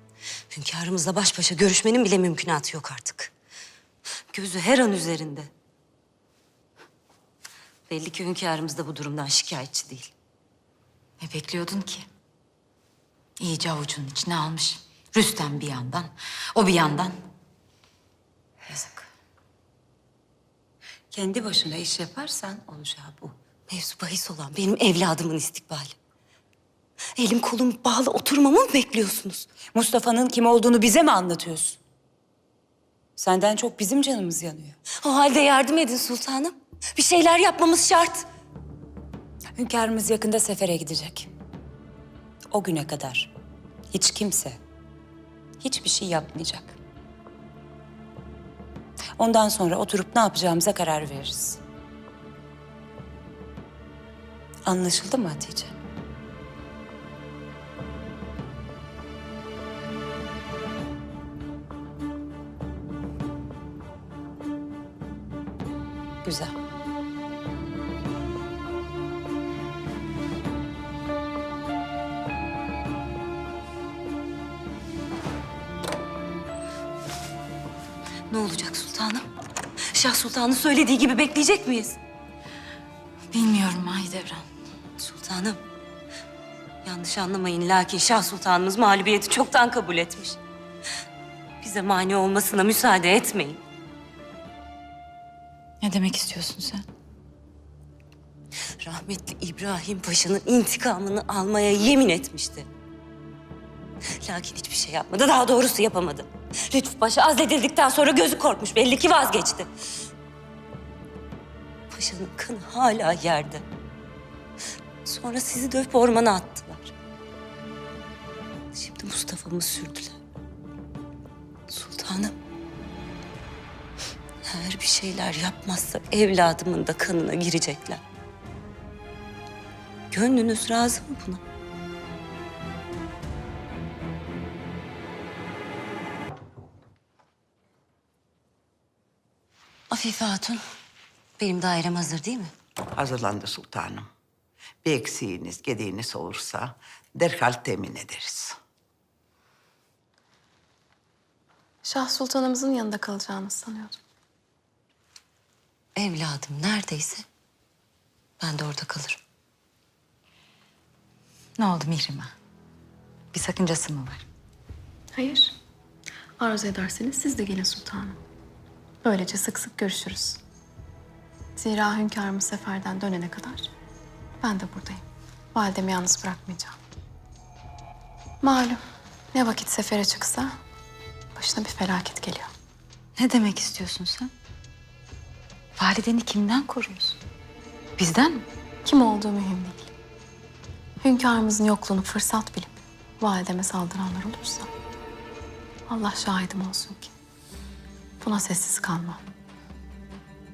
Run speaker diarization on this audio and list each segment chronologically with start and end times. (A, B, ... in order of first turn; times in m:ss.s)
0:00.5-0:03.3 A
0:04.3-0:05.5 A
0:07.9-0:10.1 A
0:11.2-0:12.1 B
0:13.4-0:17.2 B
0:18.7-0:19.1 B
0:21.1-0:23.4 C
0:23.7-0:26.0 A
0:27.2-0:29.5 A
0:29.7-0:31.8 C
0:33.2-0:34.8 C
0:35.0-0:38.2 A
0:39.6-0:41.3 C
0:42.5-0:43.3 C
0:43.9-0:44.6 C
0:45.6-0:46.8 C
0:49.2-0:51.6 C
0:54.6-0:55.8 C
1:06.2-1:06.6 C
1:18.3-1:19.3 A
1:19.9-1:22.0 A
1:23.3-1:24.5 B
1:25.0-1:25.6 A
1:26.8-1:30.4 A
1:31.6-1:33.6 A
1:35.8-1:36.8 B
1:38.8-1:42.7 A
1:44.2-1:49.7 A
1:51.9-1:53.6 A
1:55.0-1:56.9 A
1:58.7-2:00.2 A
2:01.7-2:02.3 A
2:04.4-2:08.0 A
2:10.1-2:11.4 A
2:19.9-2:20.6 A
2:21.4-2:22.5 A
2:22.9-2:24.1 D
2:24.8-2:28.6 D
2:31.8-2:34.0 E
2:36.0-2:37.2 A
2:38.4-2:39.2 A
2:41.6-2:42.3 B
2:43.3-2:44.2 B
2:45.1-2:45.5 E
2:46.4-2:48.2 E
2:49.0-2:50.4 E
2:51.6-2:53.7 E
2:54.4-2:55.0 E
2:55.5-2:56.8 E
2:58.4-2:58.8 E
2:59.3-3:00.6 E
3:01.4-3:02.5 E
3:03.2-3:04.3 B
3:05.8-3:07.2 B
3:08.0-3:08.4 B
3:08.8-3:09.9 E
3:11.0-3:14.7 E
3:15.9-3:17.1 E
3:18.2-3:19.2 E